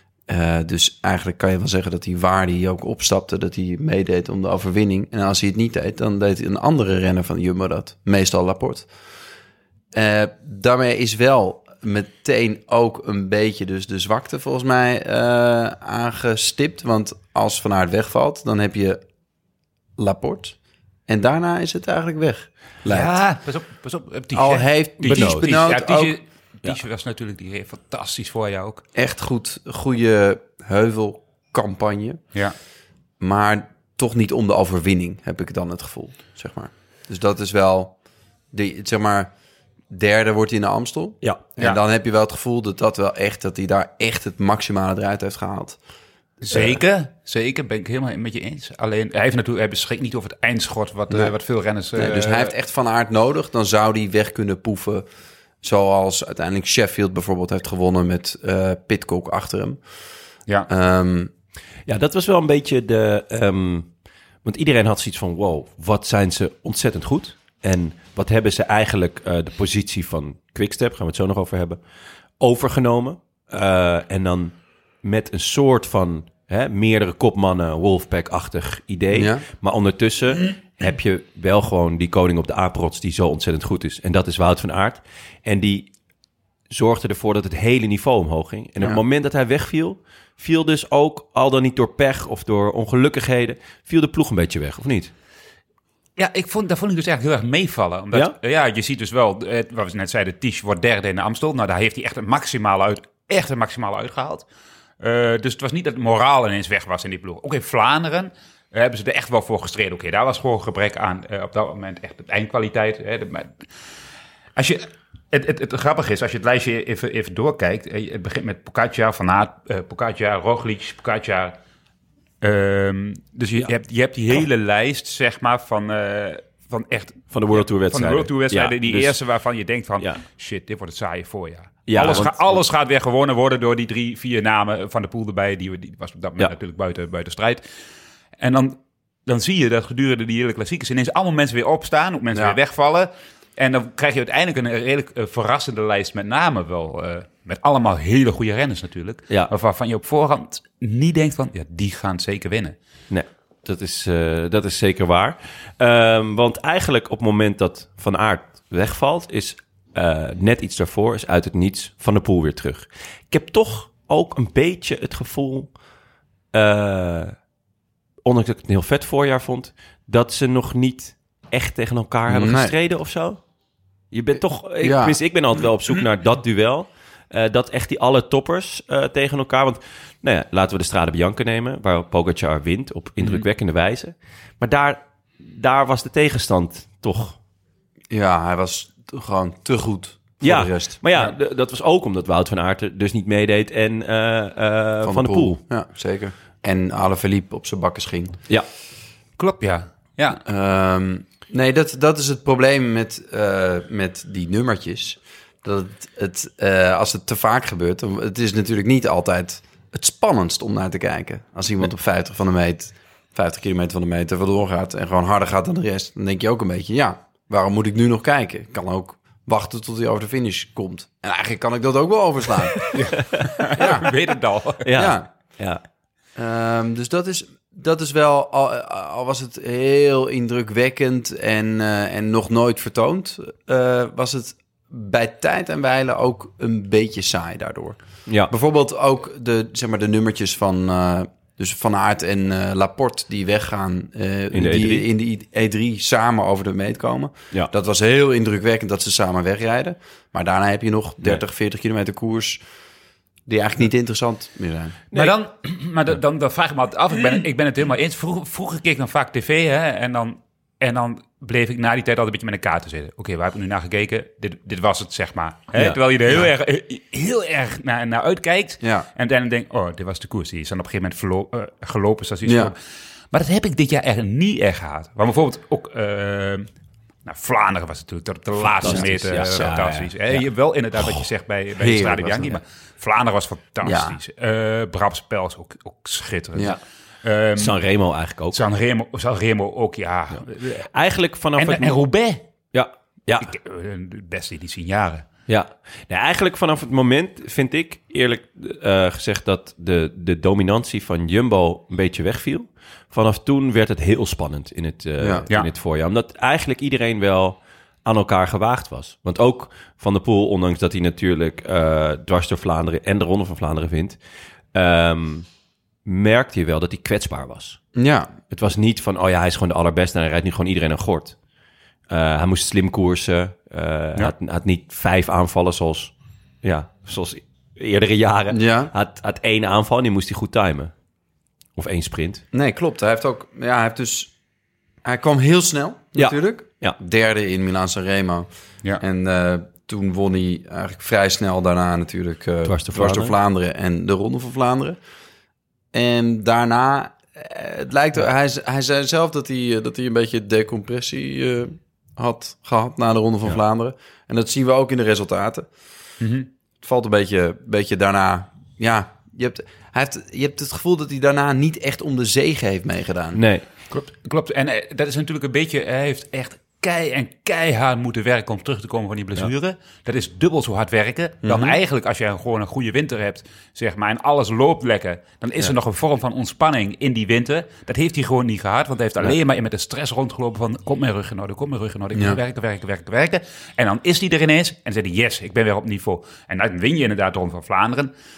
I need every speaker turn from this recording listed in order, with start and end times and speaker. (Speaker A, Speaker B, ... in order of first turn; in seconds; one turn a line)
Speaker A: 0.3-8.9
Speaker A: 9.9-19.1
Speaker A: 20.0-23.1
Speaker B: 22.9-28.8
Speaker A: 24.3-26.2
Speaker A: 28.9-32.4
Speaker A: 33.2-39.3
Speaker A: 39.9-45.8
Speaker B: 46.4-52.5
Speaker A: 46.5-46.8
Speaker A: 51.9-55.1
Speaker A: 55.6-60.1
Speaker A: 60.7-61.3
Speaker C: 61.9-85.9
Speaker A: 79.1-79.5
Speaker C: 86.7-95.1
Speaker B: 96.2-104.5
Speaker B: 105.0-113.7
Speaker B: 114.6-121.6
Speaker B: 122.4-137.7
Speaker C: 127.3-129.2
Speaker C: 131.9-132.6
Speaker B: 138.4-152.8
Speaker C: 153.1-165.8
Speaker C: 166.5-167.4
Speaker C: 168.2-173.5
Speaker A: 172.3-172.7
Speaker C: 174.1-187.4
Speaker A: 174.8-175.2
Speaker A: 188.1-191.0
Speaker C: 190.4-195.6
Speaker A: 195.0-198.4
Speaker B: 199.4-200.4
Speaker A: 200.4-223.2
Speaker B: 222.9-224.8
Speaker A: 223.8-224.1
Speaker C: 224.8-225.8
Speaker A: 224.9-225.3
Speaker A: 226.3-252.6
Speaker C: 244.5-245.1
Speaker A: 253.5-255.0
Speaker B: 255.1-272.8
Speaker A: 265.8-266.5
Speaker A: 268.8-269.1
Speaker A: 272.4-272.7
Speaker B: 273.3-276.7
Speaker B: 277.2-287.8
Speaker C: 278.6-280.5
Speaker A: 281.8-282.6
Speaker A: 283.8-284.2
Speaker C: 287.6-288.6
Speaker B: 288.5-290.9
Speaker C: 290.9-292.0
Speaker B: 291.6-292.4
Speaker C: 292.7-293.5
Speaker B: 293.4-295.3
Speaker C: 295.5-314.2
Speaker A: 305.2-305.4
Speaker C: 314.7-315.5
Speaker C: 316.1-317.8
Speaker A: 317.9-318.3
Speaker C: 318.5-321.4
Speaker C: 322.1-331.0
Speaker A: 328.5-328.9
Speaker C: 331.8-332.4
Speaker A: 332.5-334.4
Speaker A: 335.0-345.0
Speaker C: 336.2-337.0
Speaker C: 342.6-343.4
Speaker A: 345.9-355.7
Speaker B: 356.2-356.5
Speaker A: 356.8-363.4
Speaker C: 363.4-363.7
Speaker B: 363.9-388.1
Speaker A: 371.4-371.8
Speaker A: 382.1-382.4